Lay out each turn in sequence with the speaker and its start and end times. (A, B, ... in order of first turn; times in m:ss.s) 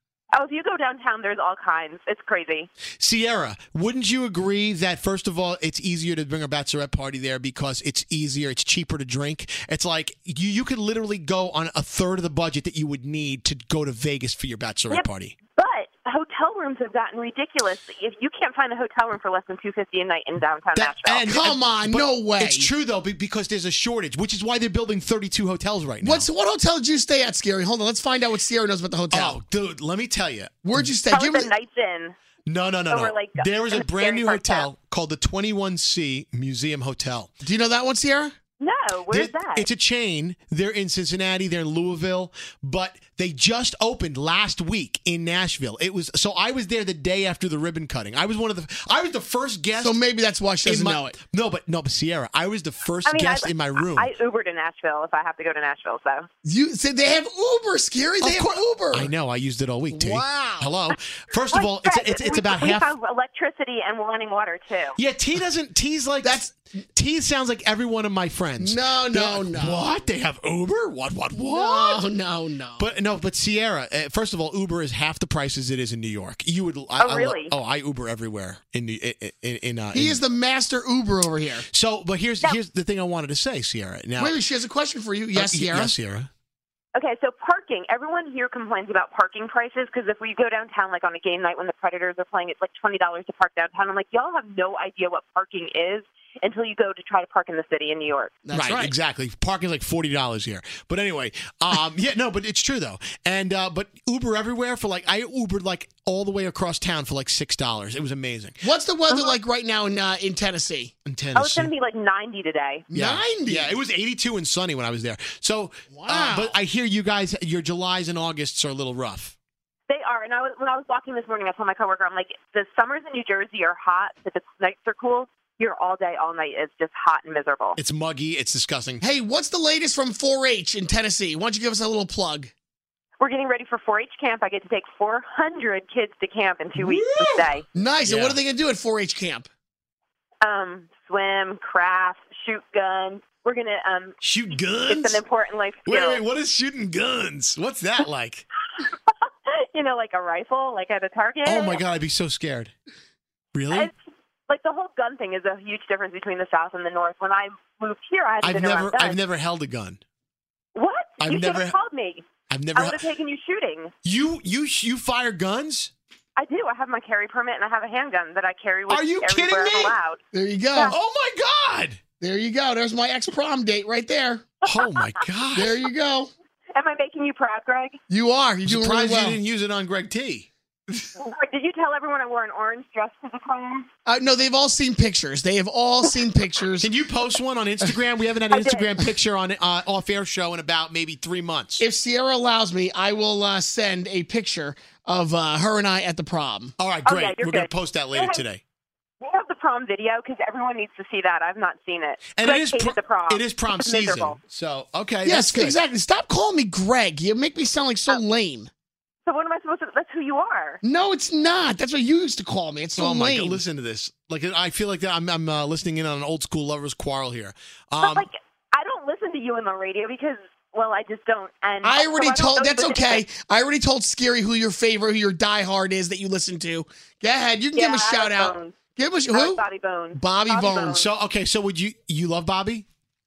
0:00.3-0:02.7 A
0:03.0-0:15.4 B
0:14.9-0:21.2 A
0:20.8-0:26.3 B
0:21.2-0:22.7 C
0:26.0-0:29.4 C
0:29.1-0:30.8 B
0:30.6-0:31.5 C
0:31.1-0:32.2 A
0:32.5-0:37.3 B
0:32.9-0:34.7 A
0:37.4-0:38.3 C
0:38.6-0:39.6 A
0:39.1-0:50.0 B
0:49.8-0:51.2 C
0:50.6-0:54.1 B
0:53.0-0:56.3 A
0:56.4-0:59.1 C
0:58.2-1:02.9 B
0:59.9-1:00.7 C
1:01.5-1:05.0 A
1:05.0-1:06.4 B
1:06.2-1:06.6 C
1:06.9-1:12.1 B
1:08.6-1:09.8 C
1:11.3-1:12.8 C
1:12.8-1:20.2 B
1:17.0-1:17.5 A
1:19.9-1:21.6 C
1:21.7-1:24.4 B
1:24.2-1:25.9 C
1:25.3-1:26.3 B
1:26.9-1:38.4 A
1:38.5-1:38.9 C
1:38.5-1:48.6 B
1:48.6-1:50.9 C
1:49.1-1:49.4 A
1:51.0-1:51.7 B
1:51.3-1:52.9 A
1:52.9-1:53.7 C
1:52.9-1:59.3 B
1:55.9-1:56.5 C
1:59.9-2:07.8 A
2:07.8-2:09.0 B
2:09.0-2:12.5 C
2:13.2-2:17.6 A
2:16.8-2:17.5 B
2:17.7-2:19.5 C
2:18.0-2:18.4 B
2:20.4-2:26.2 A
2:24.2-2:25.2 B
2:25.8-2:28.4 B
2:29.5-2:31.8 A
2:31.4-2:32.7 B
2:33.5-2:33.9 B
2:34.5-2:39.2 A
2:38.4-2:40.0 B
2:40.7-2:43.9 A
2:41.2-2:41.8 B
2:42.5-2:43.0 B
2:44.0-2:45.9 B
2:46.4-2:50.2 A
2:48.9-2:50.0 B
2:50.3-2:50.9 C
2:50.9-2:52.0 B
2:52.2-2:54.5 C
2:54.6-2:55.8 B
2:54.6-2:54.9 A
2:55.6-2:56.3 C
2:56.7-2:58.0 A
2:58.1-2:59.4 C
2:58.6-3:00.5 B
3:01.2-3:03.9 A
3:04.0-3:06.9 C
3:06.8-3:11.8 B
3:08.5-3:08.9 A
3:11.8-3:16.7 C
3:16.8-3:18.6 B
3:17.0-3:18.4 A
3:19.2-3:24.4 A
3:22.3-3:25.8 B
3:25.2-3:28.7 C
3:29.2-3:30.8 A
3:30.8-3:33.6 C
3:33.0-3:38.3 B
3:38.0-3:43.2 A
3:41.8-3:49.6 C
3:47.7-3:48.8 A
3:49.3-3:51.0 A
3:50.1-3:51.0 C
3:50.9-3:52.8 B